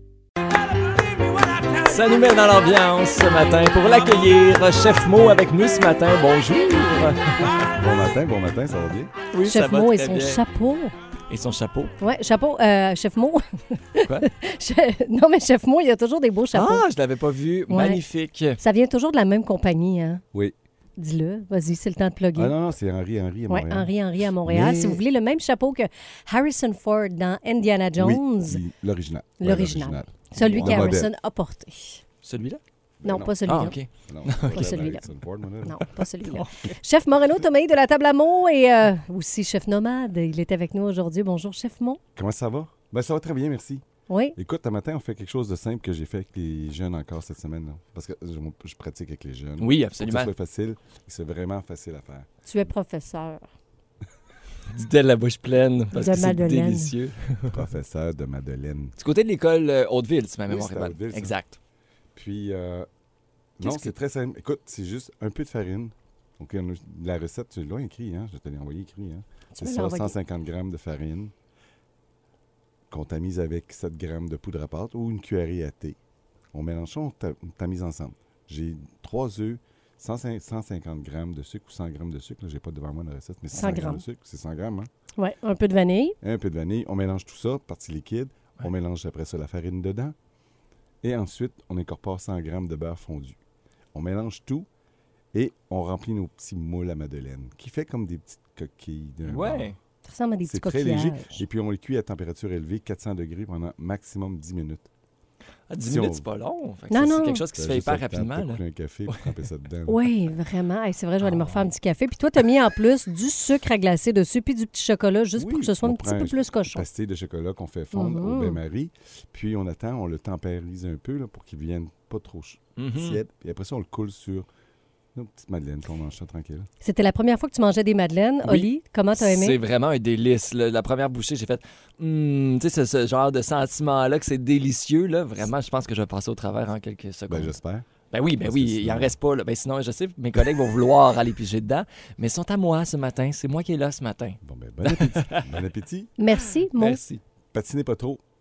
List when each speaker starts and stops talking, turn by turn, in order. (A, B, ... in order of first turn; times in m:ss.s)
0:01.6-0:07.6 A
0:07.8-0:09.1 B
0:09.3-0:10.4 A
0:09.4-0:10.9 C
0:11.3-0:11.9 A
0:12.0-0:16.8 C
0:14.0-0:14.3 A
0:16.5-0:18.6 A
0:17.7-0:18.0 C
0:18.6-0:20.2 C
0:21.0-0:22.5 C
0:22.3-0:24.9 B
0:23.5-0:28.6 C
0:24.5-0:25.0 A
0:28.0-0:31.1 B
0:29.4-0:32.0 C
0:30.4-0:30.9 A
0:32.2-0:32.6 A
0:33.0-0:36.0 B
0:33.0-0:33.7 C
0:33.4-0:34.8 A
0:34.5-0:35.0 C
0:35.6-0:42.0 C
0:42.1-0:43.8 B
0:44.1-0:44.4 C
0:44.4-0:52.3 B
0:49.6-0:50.3 A
0:52.4-0:53.4 C
0:54.7-0:57.6 A
0:55.9-0:56.9 C
0:57.5-0:59.0 B
0:59.0-1:01.6 A
1:00.5-1:01.3 B
1:02.1-1:02.9 B
1:03.6-1:11.3 B
1:03.6-1:03.9 A
1:09.6-1:10.1 C
1:12.9-1:16.0 B
1:16.5-1:24.9 B
1:23.5-1:24.0 C
1:25.2-1:26.1 C
1:26.2-1:30.1 B
1:31.0-1:33.4 B
1:33.9-1:34.7 B
1:35.3-1:39.7 B
1:39.2-1:39.8 A
1:40.0-1:41.4 C
1:40.5-1:44.9 B
1:45.7-1:49.3 A
1:45.8-1:46.2 B
1:46.9-1:47.4 C
1:47.5-1:50.1 B
1:49.9-1:56.8 C
1:51.2-1:51.7 A
1:55.4-2:04.5 B
1:57.9-1:58.6 C
2:02.8-2:03.2 A
2:05.1-2:06.7 B
2:06.8-2:09.6 C
2:08.4-2:17.5 A
2:17.3-2:17.9 B
2:18.1-2:25.5 A
2:18.4-2:19.2 B
2:24.4-2:26.1 B
2:26.2-2:27.0 C
2:26.6-2:27.2 A
2:27.5-2:28.2 B